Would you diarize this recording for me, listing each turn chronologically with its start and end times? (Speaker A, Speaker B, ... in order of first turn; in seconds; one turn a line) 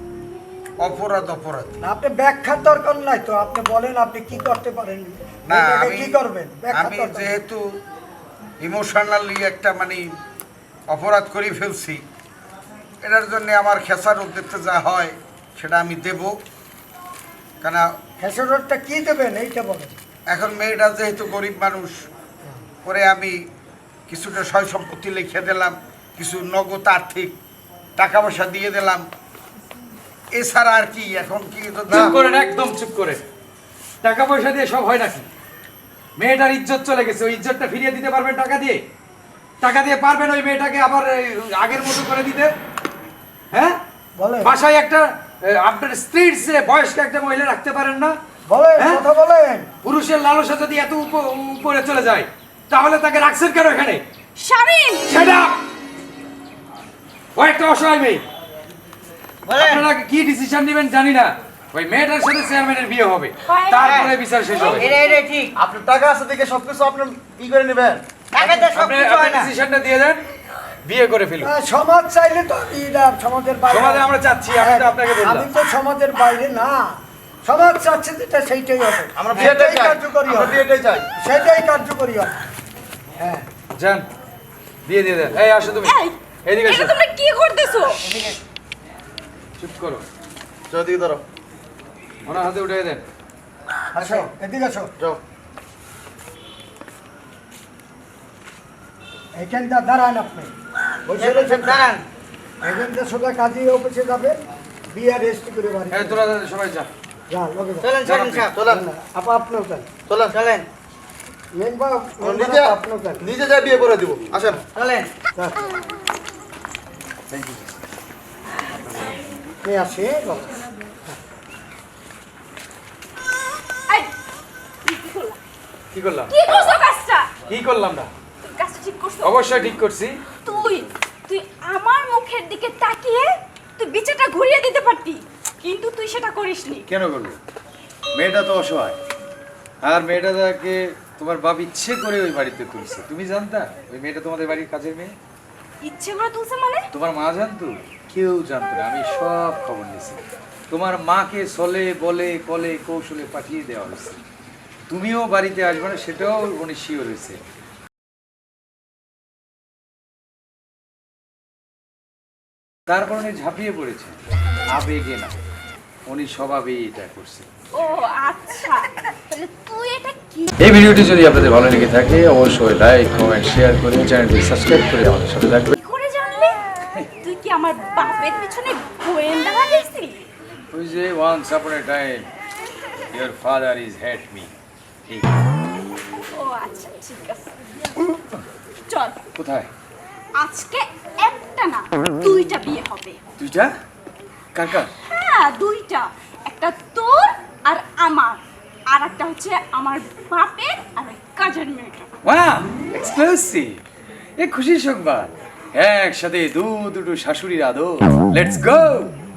Speaker A: 0.8-1.8
Speaker B: 1.8-7.3
Speaker A: 5.5-6.2
Speaker A: 6.7-7.8
Speaker A: 8.6-10.1
Speaker A: 10.9-12.0
Speaker A: 13.0-16.4
Speaker A: 17.6-18.0
Speaker B: 18.2-19.9
Speaker A: 20.3-22.1
Speaker A: 22.8-23.4
Speaker A: 24.1-27.4
Speaker A: 28.0-29.1
Speaker A: 30.3-32.2
Speaker C: 31.9-33.2
Speaker C: 34.0-35.3
Speaker C: 36.2-38.8
Speaker C: 39.6-42.5
Speaker C: 43.5-43.8
Speaker B: 44.2-44.5
Speaker C: 44.4-48.1
Speaker B: 48.5-49.7
Speaker C: 48.8-49.0
Speaker C: 49.8-54.0
Speaker D: 54.4-55.1
Speaker C: 55.1-55.6
Speaker C: 57.3-58.2
Speaker E: 59.5-59.9
Speaker C: 59.5-65.0
Speaker D: 63.5-65.2
Speaker E: 63.8-64.1
Speaker E: 64.7-65.5
Speaker F: 65.5-68.7
Speaker E: 68.3-69.5
Speaker C: 68.7-70.2
Speaker C: 70.8-71.5
Speaker B: 71.4-80.6
Speaker C: 73.7-75.5
Speaker F: 79.2-81.0
Speaker B: 81.2-82.3
Speaker B: 83.2-83.5
Speaker C: 83.8-84.0
Speaker C: 84.8-87.0
Speaker D: 85.8-86.1
Speaker D: 86.7-88.1
Speaker C: 89.6-90.0
Speaker F: 90.7-91.2
Speaker C: 92.2-93.0
Speaker F: 94.0-94.3
Speaker B: 94.0-94.9
Speaker B: 99.3-100.5
Speaker B: 101.1-101.8
Speaker E: 101.1-102.0
Speaker B: 102.6-104.4
Speaker B: 104.9-106.2
Speaker C: 105.9-106.9
Speaker B: 107.3-108.0
Speaker E: 107.8-108.8
Speaker C: 108.0-108.5
Speaker F: 108.4-108.8
Speaker B: 108.7-109.9
Speaker F: 110.1-110.4
Speaker E: 110.3-110.7
Speaker B: 111.5-113.3
Speaker F: 112.2-114.6
Speaker E: 114.7-115.1
Speaker C: 117.3-117.7
Speaker B: 119.6-120.5
Speaker D: 124.8-125.4
Speaker C: 125.9-126.3
Speaker D: 126.3-127.3
Speaker C: 127.5-128.1
Speaker D: 128.4-129.7
Speaker C: 129.2-130.2
Speaker D: 130.4-136.8
Speaker C: 136.9-137.4
Speaker C: 138.1-139.0
Speaker C: 139.8-145.1
Speaker D: 145.8-146.9
Speaker C: 146.9-154.2
Speaker C: 154.9-157.4
Speaker C: 162.9-165.3
Speaker C: 166.1-167.5
Speaker D: 167.8-170.5
Speaker C: 170.6-175.8
Speaker D: 175.8-176.6
Speaker D: 177.2-180.3
Speaker C: 180.7-182.3
Speaker C: 183.1-184.5
Speaker C: 185.1-185.3
Speaker D: 186.3-187.5
Speaker D: 188.9-189.2
Speaker C: 189.3-189.7
Speaker D: 190.4-193.2
Speaker C: 193.4-193.7
Speaker C: 194.5-194.9
Speaker D: 195.0-202.1
Speaker C: 202.2-203.8
Speaker C: 204.4-209.2